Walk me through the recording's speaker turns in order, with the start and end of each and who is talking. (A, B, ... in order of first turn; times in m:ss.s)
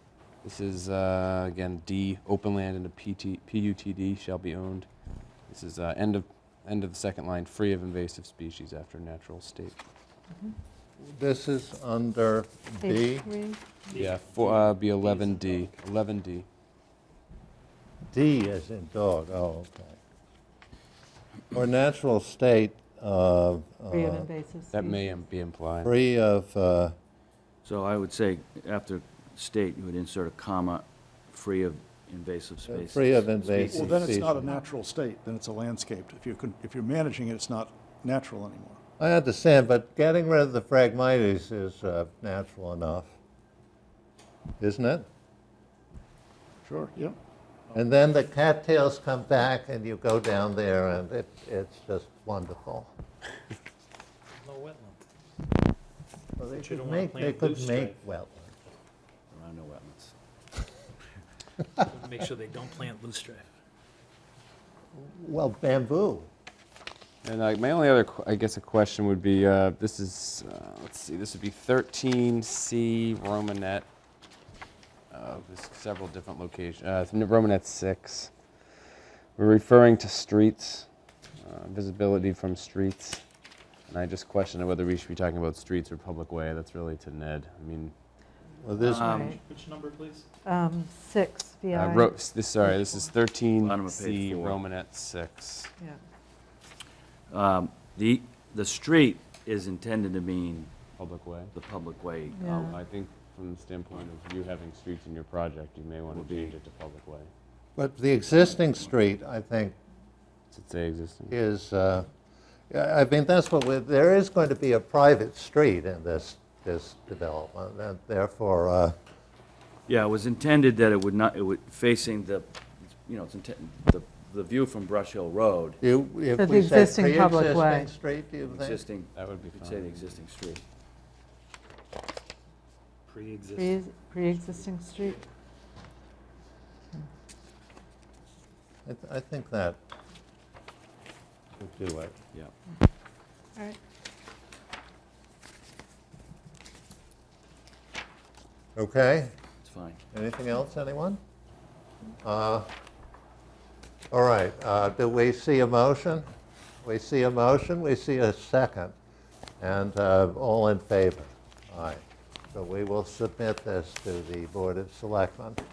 0:00.4-0:04.9 A
0:05.5-0:09.8 A
0:11.0-0:13.3 B
0:12.8-0:13.6 C
0:13.9-0:15.7 D
0:14.0-0:16.5 A
0:18.1-0:20.0 B
0:21.5-0:24.3 B
0:23.9-0:25.2 C
0:24.7-0:25.9 A
0:25.8-0:27.0 B
0:27.6-0:34.2 E
0:32.7-0:34.5 B
0:33.6-0:38.8 F
0:39.0-0:43.1 B
0:44.6-0:45.1 B
0:46.6-0:47.2 F
0:47.7-0:52.9 B
0:54.4-0:55.0 D
0:56.4-0:58.6 B
0:56.5-0:58.0 D
0:59.3-1:00.2 E
1:01.8-1:03.5 D
1:05.0-1:06.3 B
1:07.2-1:13.9 A
1:15.1-1:18.3 A
1:19.4-1:20.9 A
1:21.4-1:23.2 A
1:23.9-1:27.9 A
1:28.6-1:29.3 B
1:28.8-1:30.3 D
1:28.8-1:29.4 E
1:29.1-1:29.4 C
1:30.4-1:33.0 C
1:31.7-1:35.7 A
1:33.6-1:34.6 E
1:37.3-1:40.7 E
1:41.0-1:41.5 A
1:41.6-1:42.7 E
1:42.4-1:42.8 C
1:42.6-1:47.3 A
1:46.1-1:46.6 E
1:47.8-1:49.8 B
1:50.5-1:51.4 A
1:51.3-1:52.1 B
1:52.7-1:59.0 B
1:59.9-2:05.8 E
2:05.8-2:08.8 B
2:06.4-2:07.9 C
2:08.4-2:10.6 E
2:09.2-2:10.2 A
2:13.1-2:13.8 D
2:13.6-2:15.2 C
2:18.9-2:19.8 B
2:21.6-2:22.2 B
2:28.8-2:29.3 B
2:29.6-2:30.0 E
2:30.1-2:31.2 B
2:32.2-2:32.7 B
2:34.1-2:36.2 B
2:36.8-2:39.0 B
2:39.6-2:42.0 B
2:42.5-2:45.6 B